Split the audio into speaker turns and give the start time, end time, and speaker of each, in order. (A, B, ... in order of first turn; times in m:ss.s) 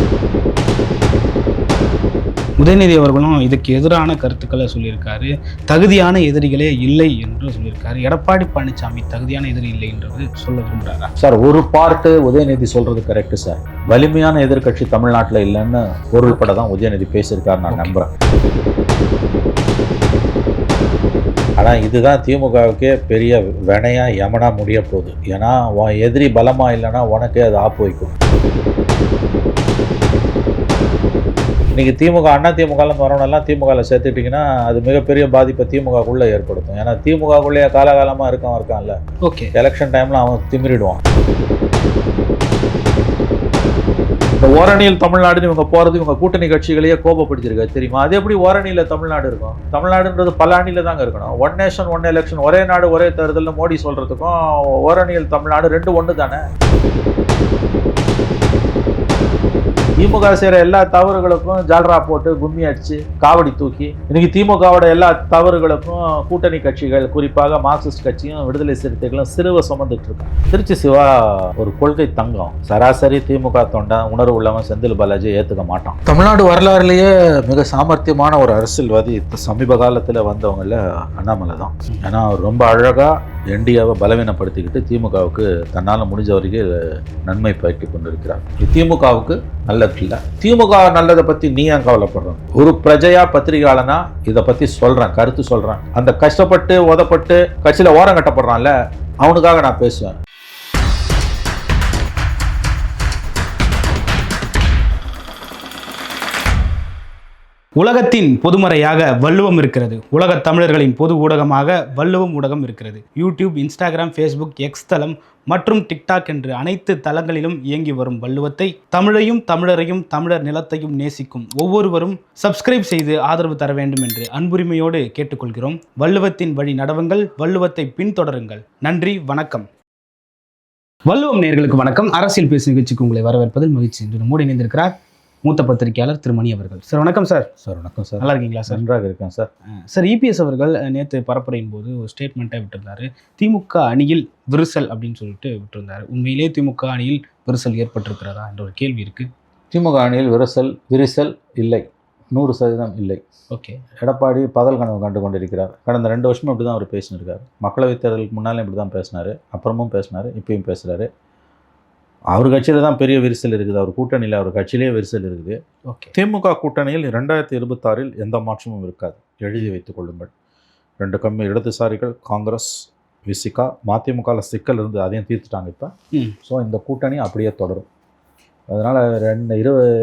0:02.6-0:11.1 A
0:11.2-0:18.1 B
0:16.3-0:16.5 A
0:17.7-0:18.0 A
0:21.6-0:28.1 B
0:31.7-0:39.0 B
0:39.2-0:39.5 A
0:39.6-0:41.0 B
0:44.4-0:56.4 B
1:00.0-1:26.7 B
1:27.3-1:40.1 B
1:47.8-2:09.7 A
2:11.1-2:17.5 A
2:17.6-2:19.5 B
2:18.2-2:18.8 A
2:19.9-2:29.3 A
2:29.7-2:33.2 B
2:33.5-2:33.8 A
2:34.0-2:41.1 B
2:42.3-2:45.6 B
2:46.1-2:50.3 B
2:51.0-2:55.9 B
2:56.4-2:57.9 B
2:58.7-2:59.8 B